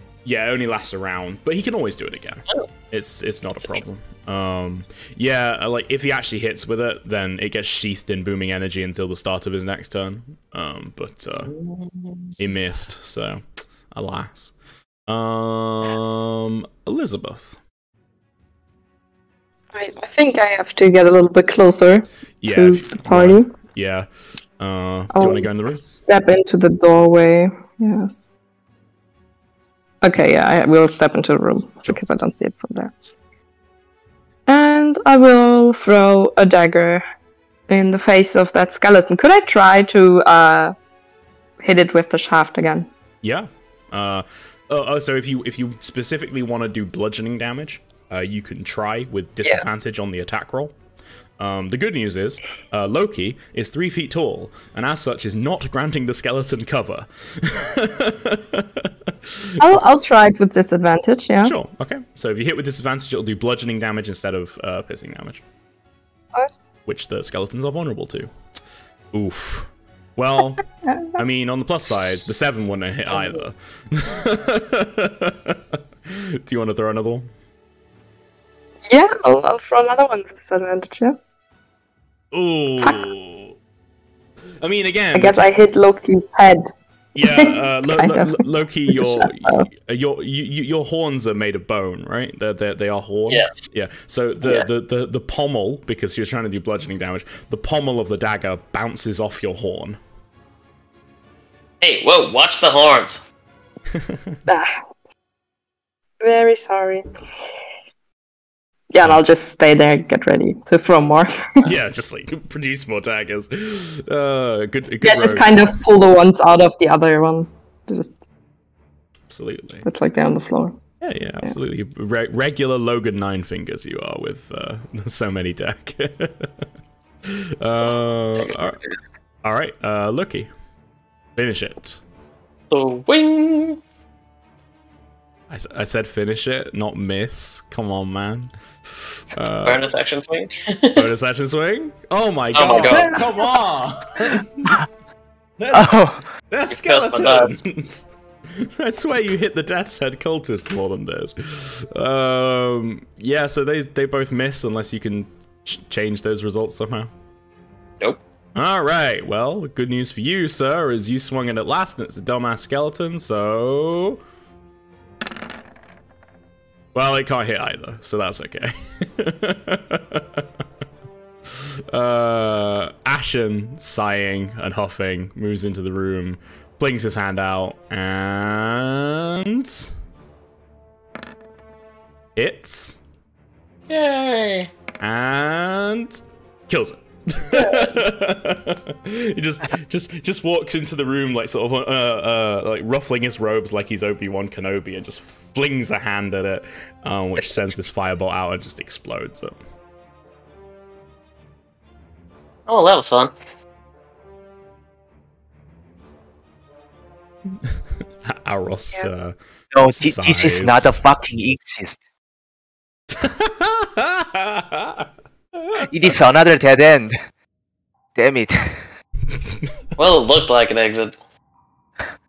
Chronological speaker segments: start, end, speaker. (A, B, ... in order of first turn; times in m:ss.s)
0:00.2-0:11.5 A
0:11.5-0:12.4 B
0:12.4-0:14.5 A
0:15.1-0:17.6 A
0:19.7-0:23.5 C
0:22.4-0:24.1 A
0:24.6-0:25.8 A
0:25.1-0:28.3 C
0:30.0-0:32.9 C
0:34.5-0:37.0 C
0:37.7-0:40.7 C
0:41.6-0:42.9 C
0:43.2-0:50.8 A
0:51.4-0:59.8 A
0:59.6-1:01.6 C
1:01.4-1:05.4 A
1:06.9-1:08.3 A
1:09.1-1:10.6 A
1:10.9-1:11.2 C
1:11.2-1:17.3 A
1:18.9-1:21.2 C
1:22.3-1:23.6 A
1:24.6-1:25.5 A
1:25.1-1:26.7 C
1:27.2-1:40.0 A
1:27.2-1:29.7 C
1:33.3-1:33.6 B
1:41.8-1:43.3 B
1:43.9-1:44.4 A
1:44.5-1:44.8 C
1:46.2-1:47.1 C
1:48.9-1:51.7 C
1:51.6-1:55.7 A
1:55.0-1:58.1 C
1:59.3-1:59.9 A
1:59.8-2:00.8 C
2:01.0-2:06.6 A
2:07.2-2:08.8 A
2:09.4-2:10.5 A
2:11.4-2:12.0 A
2:12.7-2:13.8 B
2:15.5-2:19.8 A
2:19.6-2:21.1 B
2:21.0-2:24.8 A
2:22.5-2:23.3 B
2:25.6-2:37.1 A
2:25.7-2:26.2 D
2:26.7-2:27.6 B
2:38.6-2:44.2 A
2:46.9-2:50.4 A
2:51.5-2:59.9 A
3:02.4-3:03.0 A
3:03.9-3:04.7 B
3:05.0-3:19.6 A
3:07.6-3:07.9 B
3:22.7-3:23.3 B
3:27.6-3:29.4 A
3:29.7-3:32.0 D
3:29.9-3:31.0 A
3:33.1-3:36.2 A
3:35.9-3:37.2 D
3:38.2-3:38.9 D
3:40.0-3:41.2 B